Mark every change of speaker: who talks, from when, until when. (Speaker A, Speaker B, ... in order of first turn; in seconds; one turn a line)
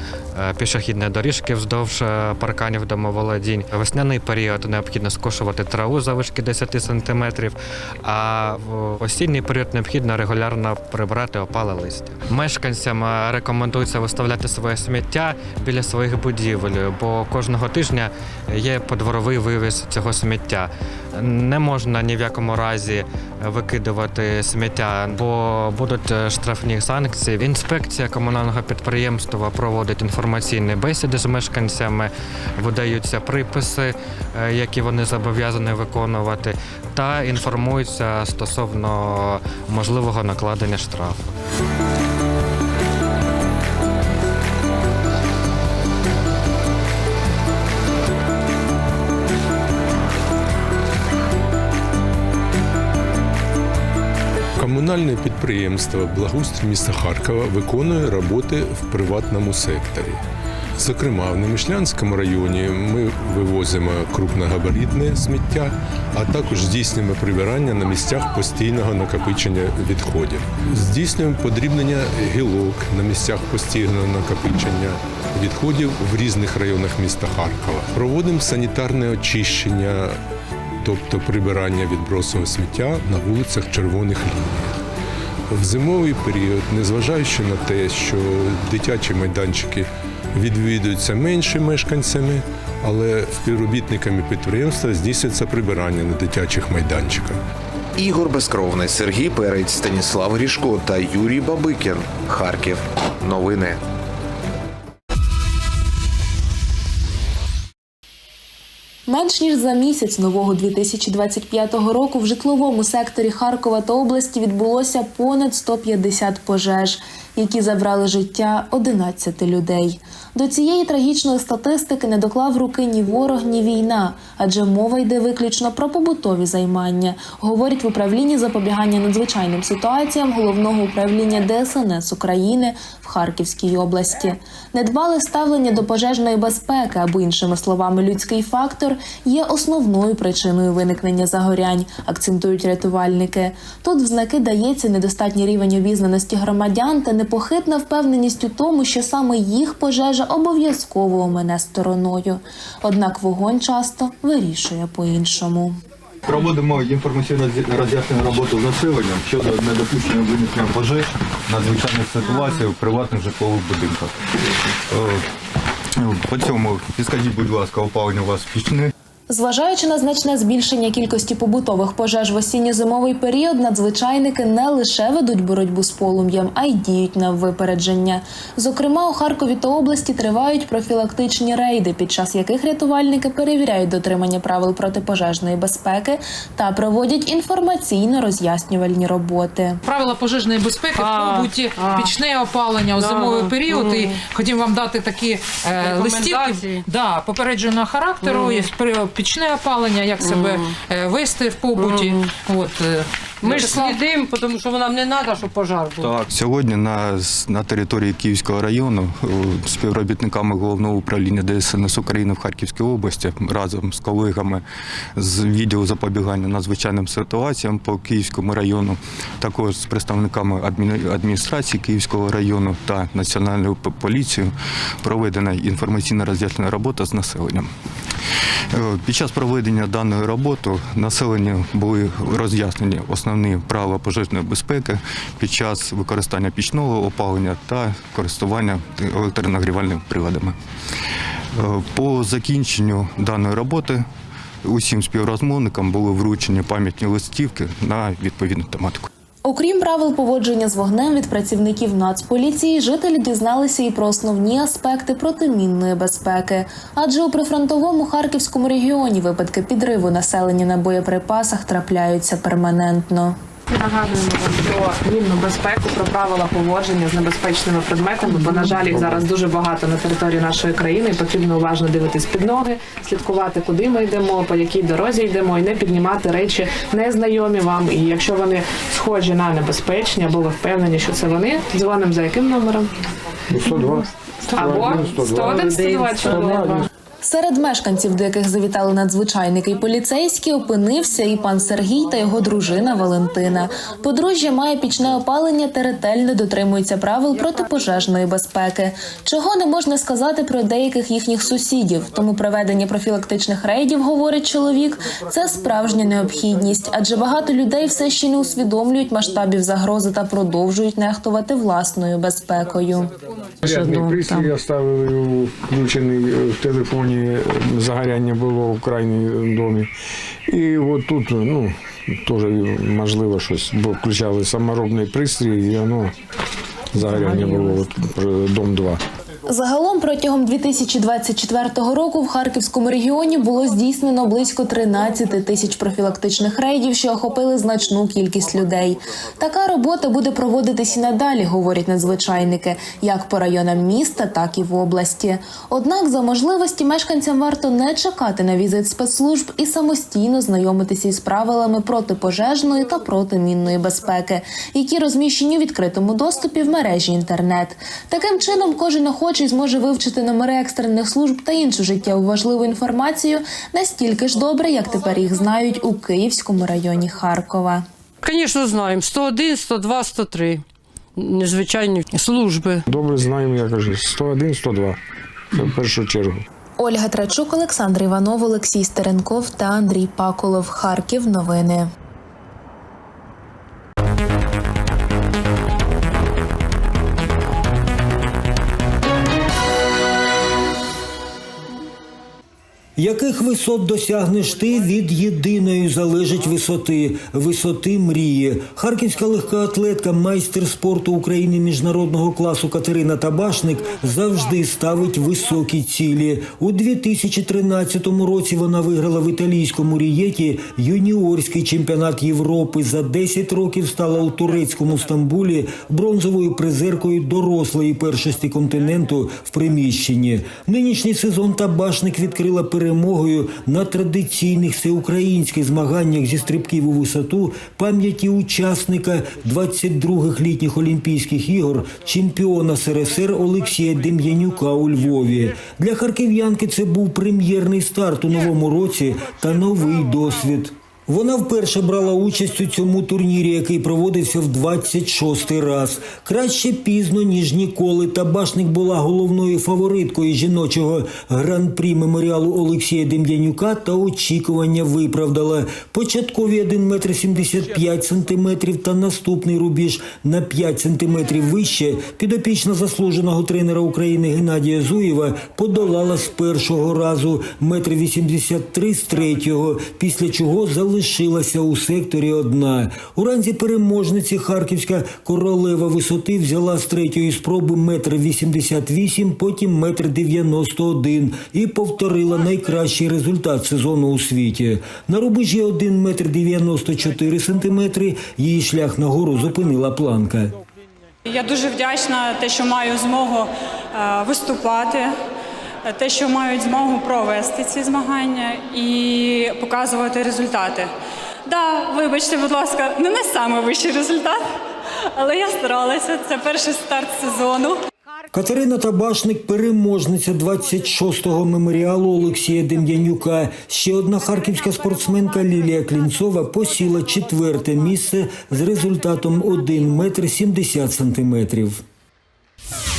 Speaker A: 0.3-41.3
Speaker B: 54.5-60.2
Speaker B: 60.7-80.2
Speaker B: 80.8-84.8
Speaker B: 85.5-97.4
Speaker C: 98.0-103.8
Speaker D: 109.1-155.8
Speaker E: 156.2-164.1
Speaker E: 164.9-165.2
Speaker E: 165.9-168.9
Speaker D: 169.3-189.8
Speaker F: 189.8-204.0
Speaker G: 190.9-192.1
Speaker G: 192.9-194.2
Speaker G: 195.8-196.8
Speaker G: 198.2-198.7
Speaker G: 200.2-200.7
Speaker G: 201.8-202.3
Speaker G: 203.4-206.1
Speaker E: 206.0-214.6
Speaker E: 215.2-227.7
Speaker E: 228.7-240.6
Speaker E: 241.5-244.1
Speaker E: 244.6-249.1
Speaker D: 249.4-263.4
Speaker H: 263.7-282.9
Speaker I: 268.3-269.3
Speaker I: 283.5-286.9
Speaker H: 283.6-286.9
Speaker G: 285.5-286.0
Speaker D: 287.2-313.1
Speaker I: 313.6-319.9
Speaker G: 313.7-314.5
Speaker I: 320.5-326.1
Speaker I: 326.9-329.0
Speaker D: 329.5-367.9
Speaker G: 368.2-370.6
Speaker G: 371.1-372.8
Speaker I: 372.9-375.0
Speaker I: 375.5-376.4
Speaker D: 376.8-381.9
Speaker J: 392.9-490.6
Speaker K: 491.2-495.2
Speaker K: 495.8-500.9
Speaker K: 501.4-504.5
Speaker K: 505.1-507.8
Speaker J: 508.3-521.8